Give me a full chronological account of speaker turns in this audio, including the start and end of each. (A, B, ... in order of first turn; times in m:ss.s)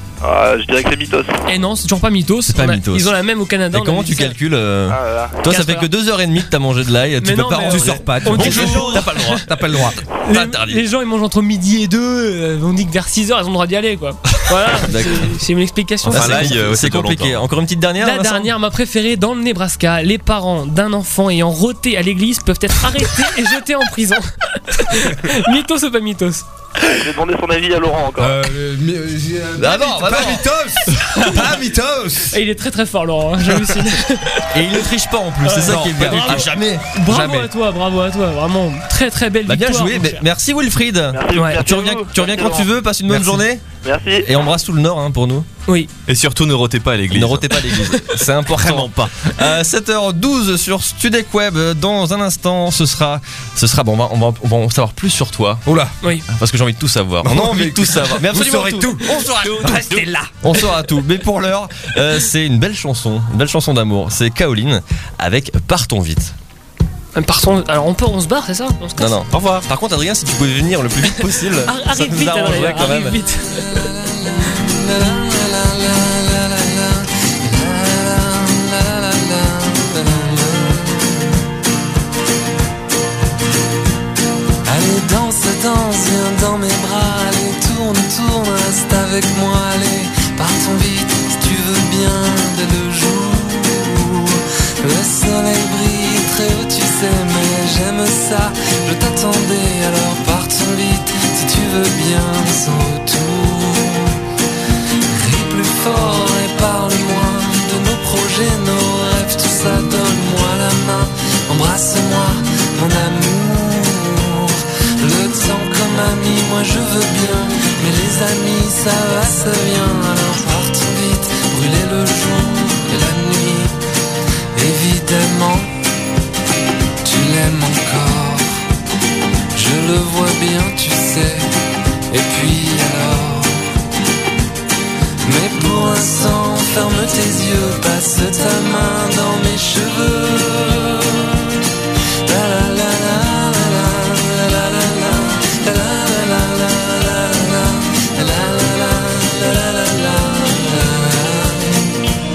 0:00.2-0:01.4 A
0:01.4-0:04.4 B
0:02.5-0:03.1 C
0:03.7-0:09.8 C
0:04.9-0:05.4 A
0:05.4-0:05.9 B
0:07.2-0:09.4 B
0:07.7-0:10.0 D
0:08.4-0:08.8 E
0:10.2-0:16.7 B
0:10.3-0:10.8 C
0:14.8-0:15.3 C
0:16.0-0:17.4 E
0:16.1-0:18.5 C
0:18.0-0:26.4 B
0:26.9-0:28.3 A
0:28.2-0:32.4 D
0:29.6-0:30.5 C
0:32.3-0:34.4 B
0:34.5-0:36.9 C
0:35.4-0:40.2 B
0:35.6-0:36.4 D
0:37.0-0:37.5 D
0:39.4-0:43.6 C
0:41.1-0:42.7 A
0:41.3-0:41.6 B
0:43.8-0:44.3 A
0:44.2-0:45.5 C
0:46.1-0:47.8 E
0:47.1-0:55.6 C
0:55.6-0:56.0 D
0:56.3-1:06.3 C
0:57.2-1:00.3 D
0:59.5-1:00.0 E
1:07.1-1:09.2 B
1:09.0-1:13.2 C
1:11.2-1:13.8 B
1:13.6-1:21.3 F
1:24.6-1:44.2 F
1:45.1-2:03.8 F
2:04.5-2:05.7 F
2:07.0-2:08.6 F
2:09.5-2:11.5 F
2:12.1-2:13.7 F
2:15.2-2:21.5 F
2:22.2-2:31.9 F